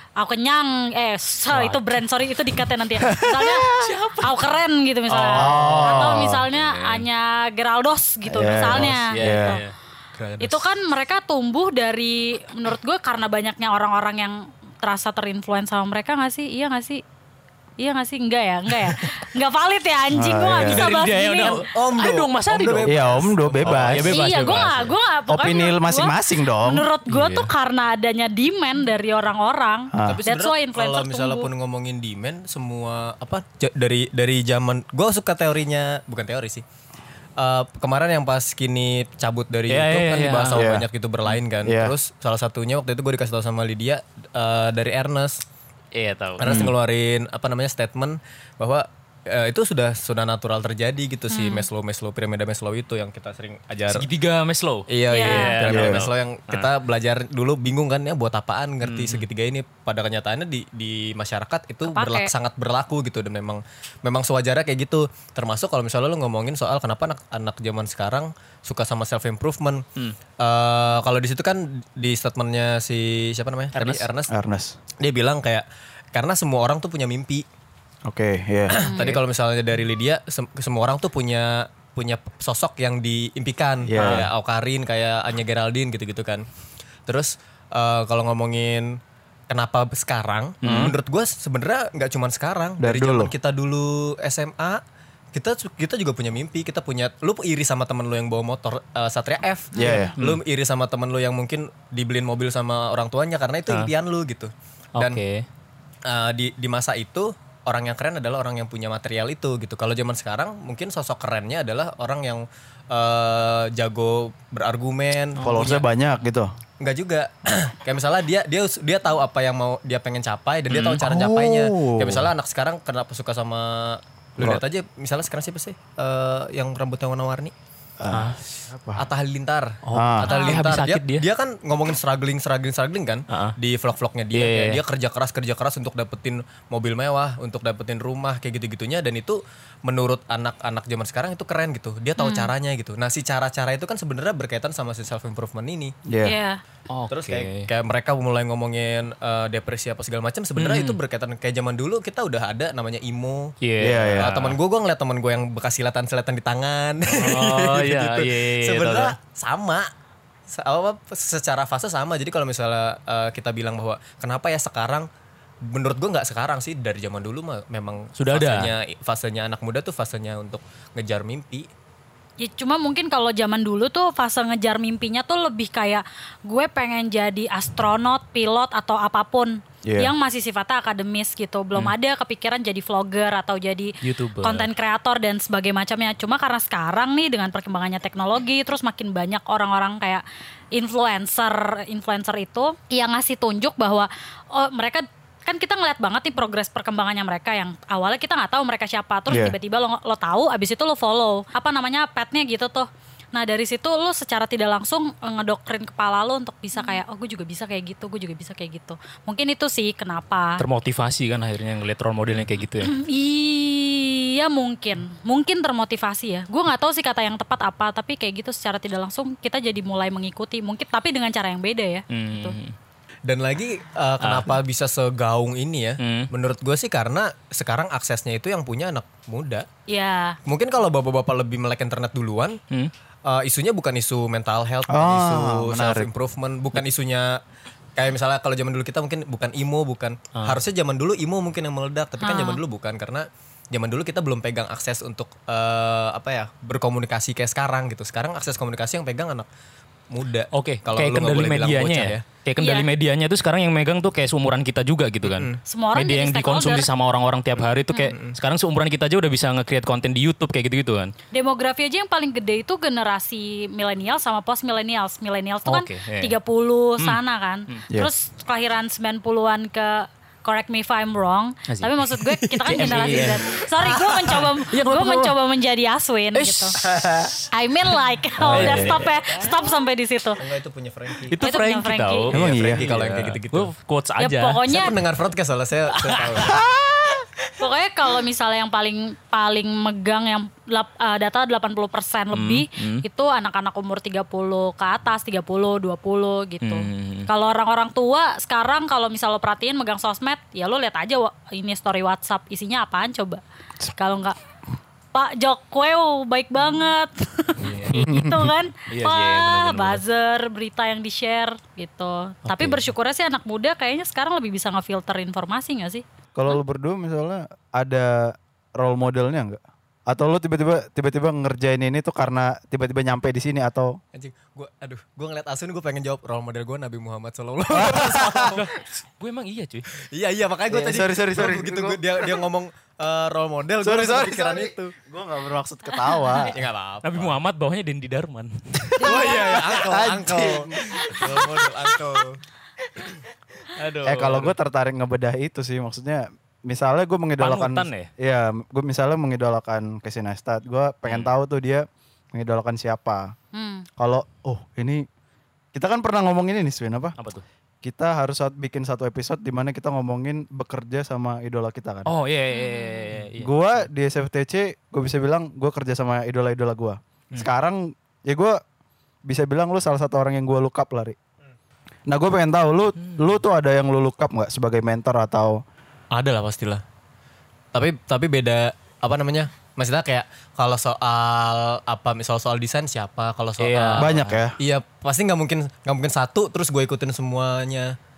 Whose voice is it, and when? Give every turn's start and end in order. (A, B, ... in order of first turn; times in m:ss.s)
0:00.2-0:09.6 A
0:01.5-0:02.0 B
0:03.1-0:03.9 C
0:03.7-0:04.4 B
0:05.1-0:07.1 B
0:05.3-0:06.4 C
0:08.2-0:09.6 C
0:08.7-0:09.7 B
0:10.2-0:10.6 D
0:10.4-0:17.0 A
0:17.8-0:21.6 A
0:20.1-0:20.9 C
0:20.6-0:24.9 B
0:21.4-0:24.2 D
0:22.8-0:24.2 C
0:24.0-0:31.5 A
0:25.3-0:26.9 C
0:27.1-0:27.5 B
0:29.9-0:30.2 C
0:30.0-0:36.6 D
0:37.4-0:45.4 D
0:39.7-0:40.7 B
0:40.5-0:40.9 C
0:41.6-0:41.9 C
0:45.9-0:46.7 B
0:46.4-0:54.1 D
0:51.3-0:51.7 A
0:53.9-0:56.7 B
0:54.9-1:09.9 D
0:55.1-0:55.6 A
0:55.6-0:56.0 C
0:58.8-0:59.3 B
1:01.9-1:02.3 A
1:10.4-1:14.3 D
1:13.8-1:14.1 B
1:14.3-1:14.8 C
1:15.0-1:17.5 D
1:18.1-1:18.9 C
1:18.7-1:26.5 D
1:18.8-1:19.2 A
1:23.9-1:24.3 C
1:24.0-1:24.3 B
1:27.1-1:34.8 D
1:30.6-1:31.0 B
1:30.6-1:31.0 C
1:32.8-1:33.3 C
1:35.3-1:45.2 D
1:39.8-1:40.1 C
1:39.8-1:40.1 A
1:40.2-1:40.4 B
1:45.0-1:45.4 B
1:46.0-1:55.8 D
1:55.4-1:55.8 B
1:55.4-1:56.5 C
1:56.8-2:07.5 D
2:00.7-2:01.0 B
2:00.9-2:02.3 C
2:08.0-2:09.1 C
2:08.1-2:08.4 B
2:09.0-2:25.9 D
2:09.8-2:11.3 B
2:09.9-2:10.3 C
2:10.2-2:10.7 A
2:13.3-2:13.6 B
2:14.3-2:14.8 B
2:22.2-2:22.5 A
2:26.1-2:26.4 C
2:26.2-2:26.6 A
2:26.9-2:27.7 B
2:27.1-2:33.6 D
2:30.6-2:31.0 B
2:33.6-2:34.6 B
2:33.8-2:34.5 C
2:34.2-2:39.9 D
2:37.1-2:39.1 B
2:40.5-2:45.1 D
2:45.6-2:51.7 D
2:48.2-2:48.7 B
2:52.4-3:30.6 A
2:59.8-3:00.1 C
3:04.0-3:04.7 B
3:19.3-3:19.6 C
3:30.6-3:32.9 B
3:32.8-3:42.6 A
3:42.1-3:42.8 B
3:43.3-3:49.7 D
3:44.2-3:44.6 B
3:46.0-3:46.3 B
3:49.9-3:50.4 A
3:50.4-3:52.6 D
3:53.3-3:57.4 D
3:54.9-3:56.1 C
3:58.0-4:09.5 D
4:02.2-4:02.6 A
4:10.1-4:12.2 D
4:10.5-4:21.1 B
4:12.6-4:12.9 A
4:15.3-4:15.6 D
4:15.6-4:16.9 A
4:18.1-4:18.4 D
4:21.3-4:36.8 A
4:25.7-4:26.3 B
4:31.7-4:35.4 B
4:36.4-4:37.3 B
4:36.8-4:37.3 C
4:37.5-4:40.4 A
4:38.4-4:39.1 B
4:38.5-4:39.0 C
4:40.4-4:41.4 D
4:41.3-4:44.7 B
4:41.4-4:42.3 A
4:42.3-4:42.8 C
4:42.3-4:43.7 D
4:44.2-4:44.9 A
4:44.6-4:46.6 D
4:45.9-4:46.6 B
4:46.4-4:47.2 C
4:47.6-5:04.4 A
4:52.3-4:53.0 B
4:56.6-4:57.3 B
5:05.1-5:16.0 A
5:07.6-5:07.9 B
5:07.9-5:08.5 C
5:08.9-5:10.0 B
5:12.5-5:12.8 B
5:16.4-5:24.0 C
5:24.1-5:28.7 D
5:27.7-5:28.6 C
5:28.5-5:29.9 B
5:30.0-5:34.9 D
5:30.7-5:32.4 C
5:33.8-5:36.6 C
5:36.0-5:36.4 A
5:36.4-5:37.4 D
5:37.0-5:38.9 B
5:39.0-5:41.8 C
5:39.0-5:42.4 D
5:43.8-5:44.6 B
5:44.0-5:53.3 C
5:47.4-5:48.1 B
5:51.1-5:51.3 B
5:53.5-5:53.9 A
5:54.0-5:55.1 C
5:55.7-5:57.2 C
5:57.2-5:57.4 B
5:57.8-6:02.1 C
6:02.1-6:03.6 B
6:02.5-6:03.1 A
6:03.4-6:08.6 C
6:09.2-6:11.2 C
6:12.1-6:15.6 C
6:13.0-6:13.3 B
6:16.1-6:16.8 D
6:17.7-6:24.1 D
6:23.6-6:24.4 B
6:24.0-6:24.6 C
6:24.6-6:28.0 D